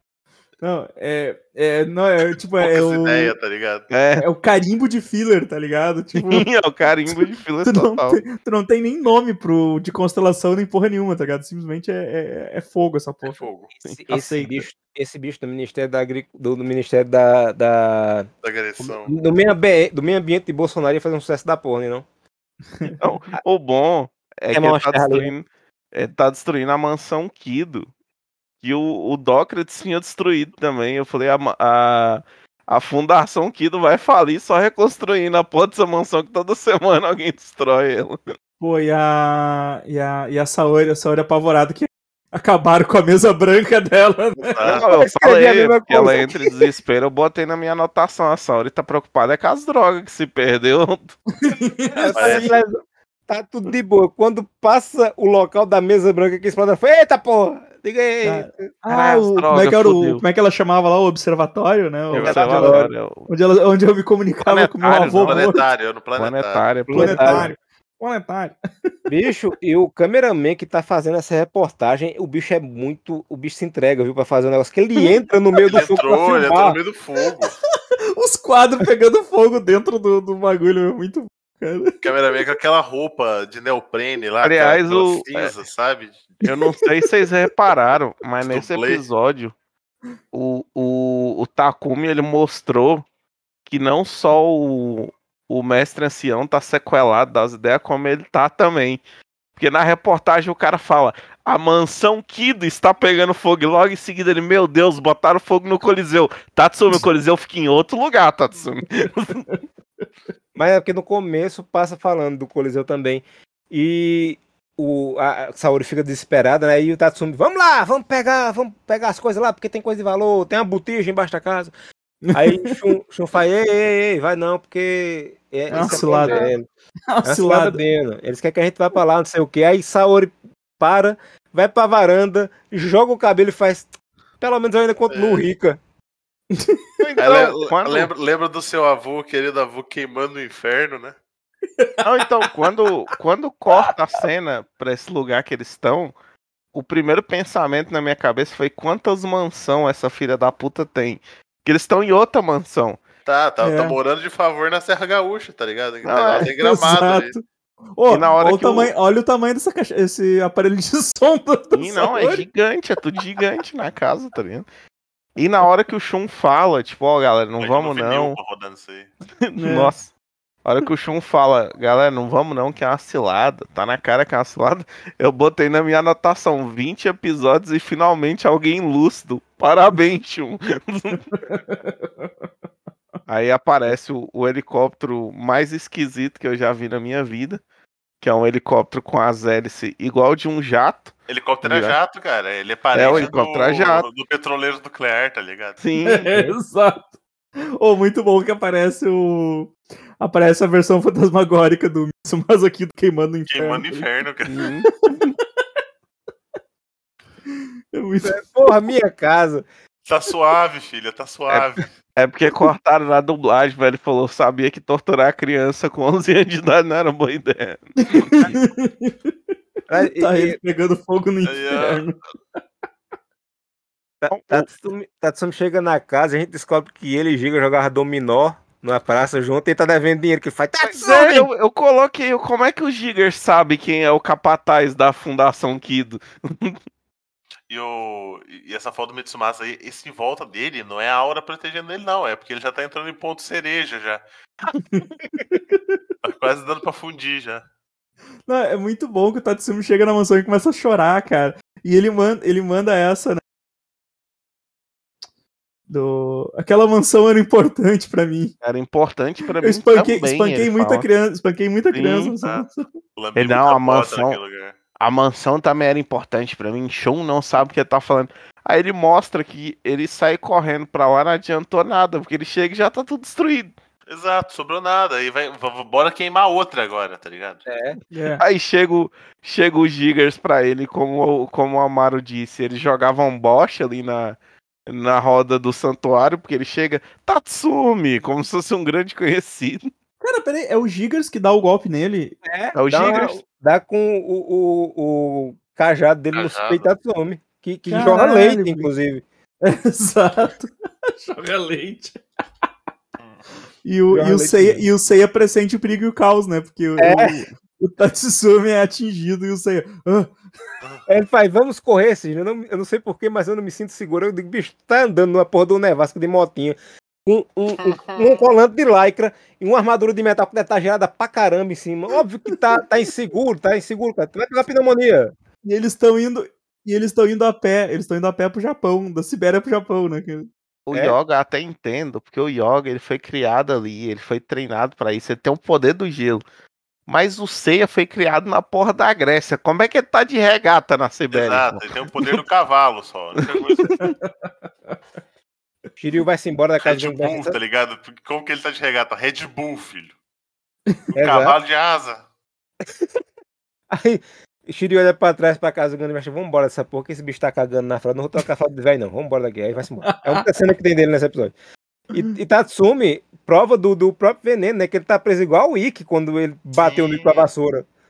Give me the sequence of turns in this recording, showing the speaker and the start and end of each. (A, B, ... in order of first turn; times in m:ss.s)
0:00.6-0:03.3 A
0:02.6-0:03.9 B
0:03.9-0:04.3 C
0:04.2-0:06.5 A
0:06.2-0:08.2 C
0:07.2-0:13.4 A
0:13.2-0:13.7 B
0:13.8-0:18.3 D
0:14.1-0:14.6 A
0:18.4-0:19.2 B
0:18.8-0:22.0 D
0:23.0-0:27.9 C
0:24.5-0:25.3 D
0:28.6-0:38.2 C
0:38.6-0:44.6 A
0:44.4-0:44.9 B
0:44.6-0:46.6 D
0:44.7-0:51.2 C
0:51.4-0:52.5 A
0:51.9-0:58.7 D
0:52.1-0:52.6 B
0:58.2-1:05.6 A
0:58.9-1:00.2 C
1:02.1-1:02.4 B
1:02.2-1:03.3 C
1:02.2-1:02.9 D
1:04.4-1:05.4 C
1:05.0-1:06.7 B
1:06.2-1:07.5 C
1:06.9-1:07.5 D
1:06.9-1:08.9 A
1:09.0-1:16.8 D
1:15.6-1:17.6 B
1:18.2-1:22.0 A
1:22.0-1:26.4 B
1:24.4-1:25.5 C
1:26.4-1:29.5 C
1:28.4-1:29.0 B
1:30.3-1:33.0 C
1:33.7-1:39.0 C
1:39.6-1:49.5 C
1:50.5-2:01.7 D
2:02.3-2:02.7 A
2:02.3-2:06.6 D
2:05.7-2:06.4 A
2:05.7-2:06.5 B
2:07.1-2:07.8 A
2:07.2-2:15.8 D
2:15.1-2:15.4 B
2:16.5-2:16.8 A
2:17.0-2:18.1 C
2:17.2-2:21.2 B
2:22.0-2:26.1 C
2:26.7-2:33.0 C
2:33.2-2:37.3 B
2:33.6-2:34.0 A
2:36.0-2:36.5 C
2:36.4-2:37.4 A
2:38.0-2:42.4 A
2:38.0-2:38.9 C
2:41.7-2:44.6 C
2:45.4-2:48.4 C
2:47.6-2:49.1 B
2:49.4-2:50.1 C
2:49.6-2:49.9 A
2:50.6-3:01.4 C
3:01.4-3:02.3 A
3:03.2-3:07.6 C
3:08.2-3:12.0 C
3:11.3-3:15.8 B
3:12.9-3:14.0 C
3:15.8-3:16.4 C
3:16.0-3:17.1 A
3:17.8-3:24.0 A
3:23.5-3:24.7 B
3:24.5-3:24.8 D
3:24.5-3:24.9 C
3:24.9-3:25.4 A
3:27.5-3:28.4 A
3:28.2-3:29.6 D
3:30.0-3:31.9 B
3:32.2-3:38.5 C
3:38.0-3:39.3 A
3:39.9-3:40.6 D
3:40.0-3:42.6 A
3:41.4-3:42.0 B
3:44.2-3:51.5 D
3:44.3-3:44.7 C
3:50.8-3:56.8 C
3:57.7-4:04.2 B
4:05.7-4:06.0 A
4:06.2-4:07.6 B
4:08.5-4:13.4 A
4:15.9-4:18.5 A
4:18.6-4:21.1 C
4:19.6-4:22.9 A
4:21.9-4:22.3 C
4:22.4-4:24.7 B
4:23.4-4:24.4 C
4:25.0-4:33.7 C
4:34.1-4:37.6 B
4:37.6-4:38.0 D
4:38.1-4:38.4 A
4:38.4-4:44.4 C
4:44.9-4:49.9 C
4:50.2-4:52.3 A
4:52.4-4:59.2 D
4:52.7-4:53.4 C
4:56.3-4:56.9 B
4:57.9-4:58.9 A
4:59.6-5:02.2 A
5:03.2-5:03.4 B
5:03.8-5:10.3 A
5:04.1-5:04.8 D
5:07.0-5:07.4 D
5:11.1-5:25.3 D
5:25.6-5:30.5 A
5:30.8-5:36.4 C
5:37.1-5:41.9 C
5:41.3-5:44.0 B
5:43.6-5:43.9 C
5:44.0-5:45.0 A
5:46.0-5:47.6 D
5:46.8-5:50.1 B
5:51.1-5:52.2 B
5:51.1-5:51.6 D
5:53.9-6:01.5 D
6:00.1-6:00.4 A
6:02.1-6:07.8 D
6:06.8-6:07.5 B